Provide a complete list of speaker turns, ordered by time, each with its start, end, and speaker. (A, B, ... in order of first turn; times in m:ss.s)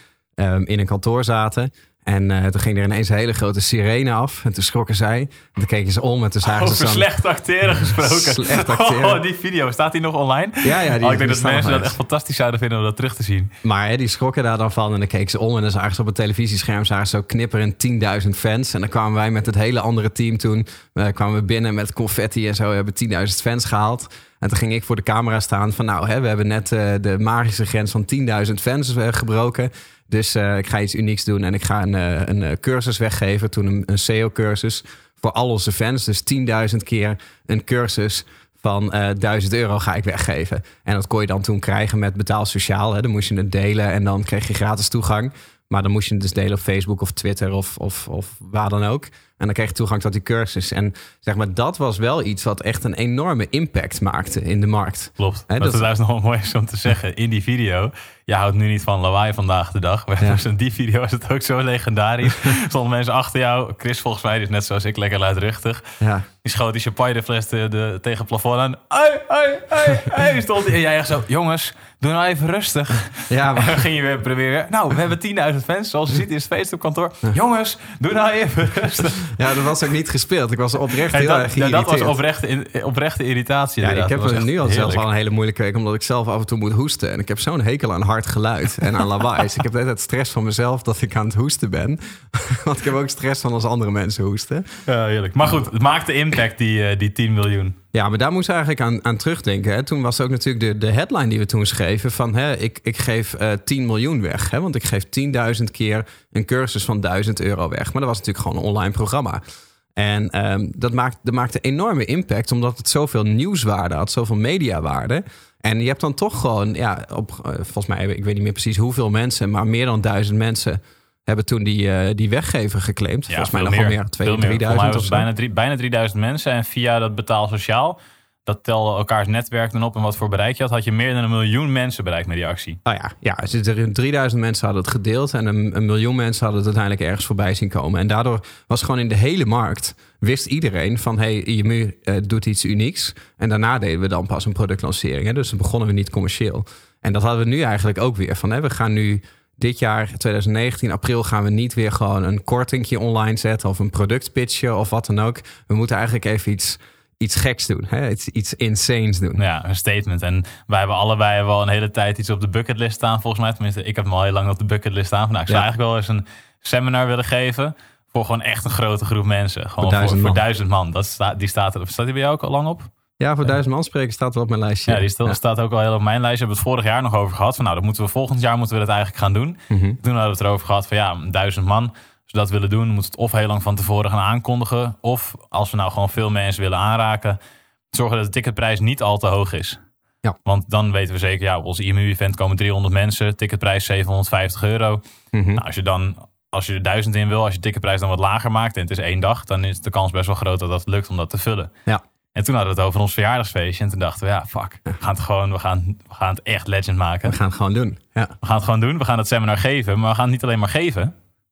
0:00.4-0:07.1 A
0:06.4-0:13.5 B
0:07.7-0:09.2 A
0:10.6-0:11.9 A
0:13.6-0:55.8 A
0:55.2-1:05.8 B
1:06.0-1:06.2 A
1:06.4-1:19.3 B
1:13.3-1:13.8 A
1:19.2-1:22.2 A
1:21.1-1:25.1 B
1:23.8-1:34.7 A
1:34.8-1:37.8 B
1:37.9-1:49.4 A
1:50.0-2:05.3 A
2:03.3-2:12.8 B
2:12.8-2:39.4 A
2:39.4-2:52.9 B
2:49.8-2:50.4 A
2:53.2-2:55.4 A
2:54.9-3:07.4 B
2:59.7-3:00.0 A
3:07.9-3:09.8 B
3:10.4-3:15.0 B
3:15.3-3:15.6 A
3:15.6-3:21.7 B
3:22.3-3:27.4 B
3:27.2-3:28.3 A
3:28.4-3:31.1 B